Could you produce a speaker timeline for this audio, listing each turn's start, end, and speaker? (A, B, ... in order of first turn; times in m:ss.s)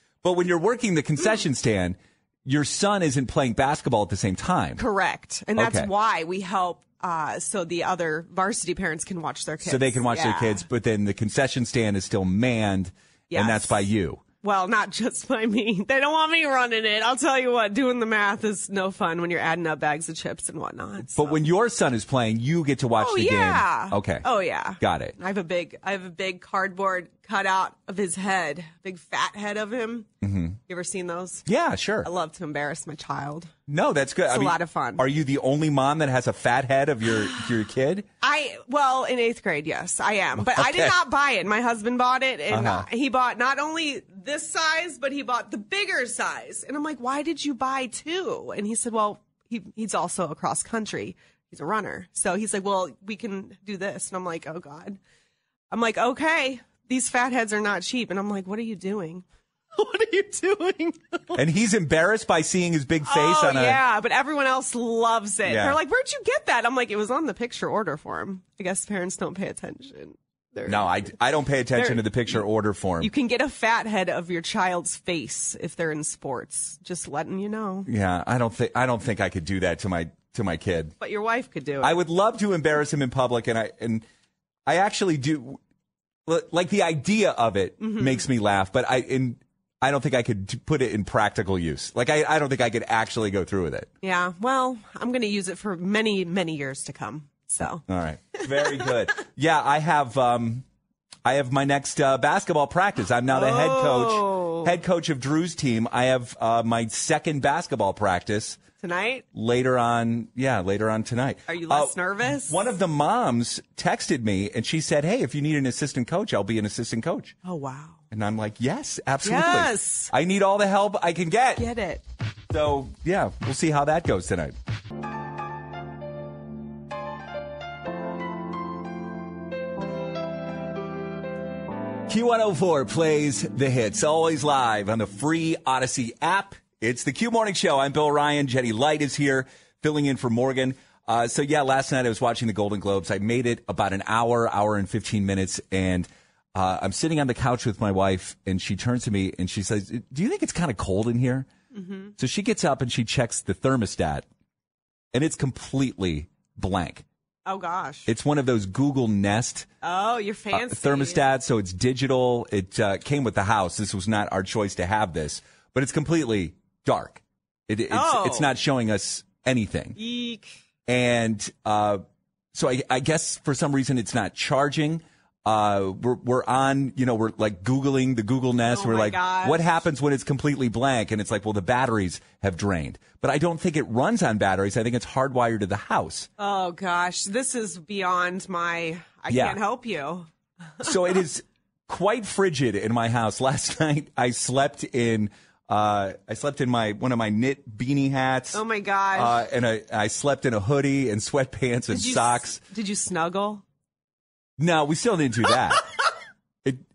0:00.2-0:04.8 A
0:04.8-0:10.6 B
0:05.6-0:05.9 A
0:09.6-0:14.2 A
0:13.3-0:13.8 B
0:14.4-0:21.4 B
0:21.0-0:24.3 A
0:23.0-0:30.1 B
0:24.8-0:25.1 A
0:30.2-0:30.6 A
0:30.7-0:31.4 B
0:31.5-0:32.1 A
0:32.0-0:33.5 B
0:33.7-0:38.1 A
0:34.3-0:35.0 B
0:38.2-0:55.0 B
0:40.4-0:41.0 A
0:42.5-0:42.9 A
0:55.7-1:01.4 B
1:01.4-1:03.8 A
1:03.1-1:11.0 B
1:05.4-1:05.8 A
1:10.6-1:13.1 A
1:11.7-1:12.4 B
1:13.0-1:17.9 B
1:17.9-1:20.9 A
1:21.0-1:22.0 B
1:21.8-1:24.1 A
1:24.7-1:25.6 A
1:26.3-1:33.9 A
1:27.8-1:28.3 B
1:34.0-1:37.8 B
1:37.9-1:40.6 A
1:38.4-1:38.9 B
1:41.2-1:48.6 A
1:43.3-1:44.7 B
1:48.8-1:49.2 B
1:49.3-1:57.4 A
1:51.5-1:52.7 B
1:57.4-1:58.0 B
1:58.1-2:01.7 A
1:59.2-2:00.1 B
2:01.6-2:02.0 B
2:02.5-2:04.6 A
2:12.1-2:31.5 A
2:31.7-2:32.1 B
2:32.2-2:34.3 A
2:35.1-2:37.0 A
2:37.5-2:38.1 B
2:38.1-2:39.7 A
2:39.8-2:41.3 B
2:40.5-2:50.0 A
2:47.9-2:48.5 B
2:50.0-2:50.5 B
2:50.9-2:52.0 A
2:52.5-3:06.3 A
2:58.7-2:59.7 B
3:06.4-3:10.3 B
3:09.3-3:09.6 A
3:10.8-3:18.6 A
3:18.5-3:19.4 B
3:19.1-3:22.6 A
3:21.9-3:23.6 B
3:24.6-3:25.8 A